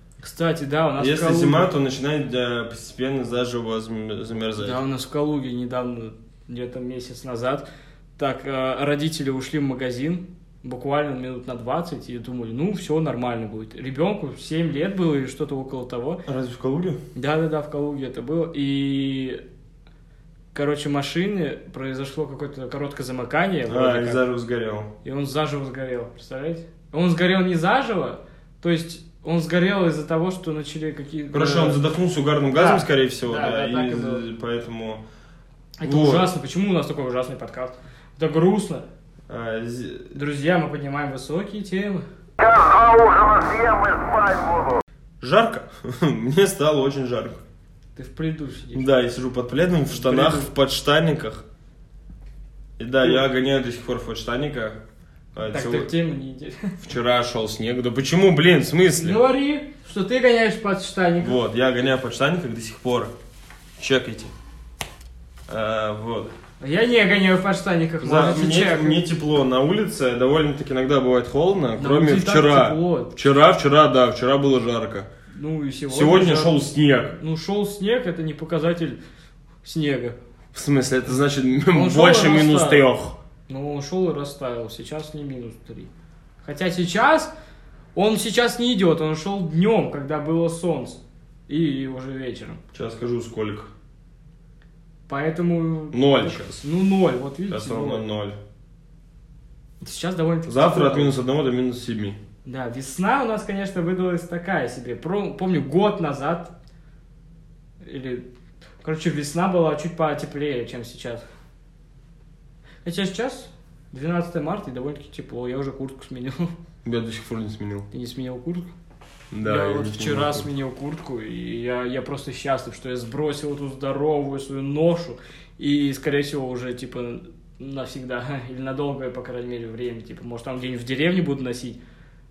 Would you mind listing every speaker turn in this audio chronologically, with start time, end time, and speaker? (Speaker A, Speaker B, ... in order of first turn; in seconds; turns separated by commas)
Speaker A: 0.2-1.7, Speaker B: 1.0-4.8, Speaker A: 4.6-7.7, Speaker A: 8.2-16.2, Speaker B: 16.2-17.0, Speaker A: 17.1-19.4, Speaker A: 20.5-24.2, Speaker B: 23.7-24.9, Speaker A: 25.0-31.8, Speaker B: 31.3-35.0, Speaker A: 32.5-34.2, Speaker A: 35.8-38.9, Speaker B: 35.8-36.3, Speaker B: 39.3-40.1, Speaker A: 40.1-42.0, Speaker C: 42.4-44.8, Speaker B: 45.2-47.4, Speaker A: 48.0-48.9, Speaker B: 48.7-51.4, Speaker A: 49.9-50.5, Speaker B: 52.8-54.8, Speaker B: 55.3-55.9, Speaker A: 55.5-56.8, Speaker B: 56.8-59.2, Speaker A: 59.0-61.4, Speaker B: 61.2-63.1, Speaker B: 63.8-64.3, Speaker B: 65.5-66.3, Speaker A: 66.6-69.0, Speaker B: 68.0-75.1, Speaker A: 71.8-73.1, Speaker A: 75.3-76.6, Speaker B: 75.9-77.2, Speaker A: 77.2-79.0, Speaker A: 79.6-80.2, Speaker B: 80.5-83.2, Speaker A: 81.7-82.8, Speaker A: 83.5-85.9, Speaker A: 86.4-87.3, Speaker A: 87.9-92.6, Speaker B: 92.7-93.7, Speaker A: 95.1-98.0, Speaker B: 95.9-96.6, Speaker B: 97.5-98.4, Speaker A: 99.8-101.2, Speaker B: 100.5-102.2, Speaker A: 102.4-106.5, Speaker A: 107.8-108.2, Speaker A: 108.8-111.2, Speaker A: 112.8-116.5, Speaker B: 116.8-117.9, Speaker A: 117.9-118.7, Speaker B: 119.3-120.5, Speaker A: 119.4-131.8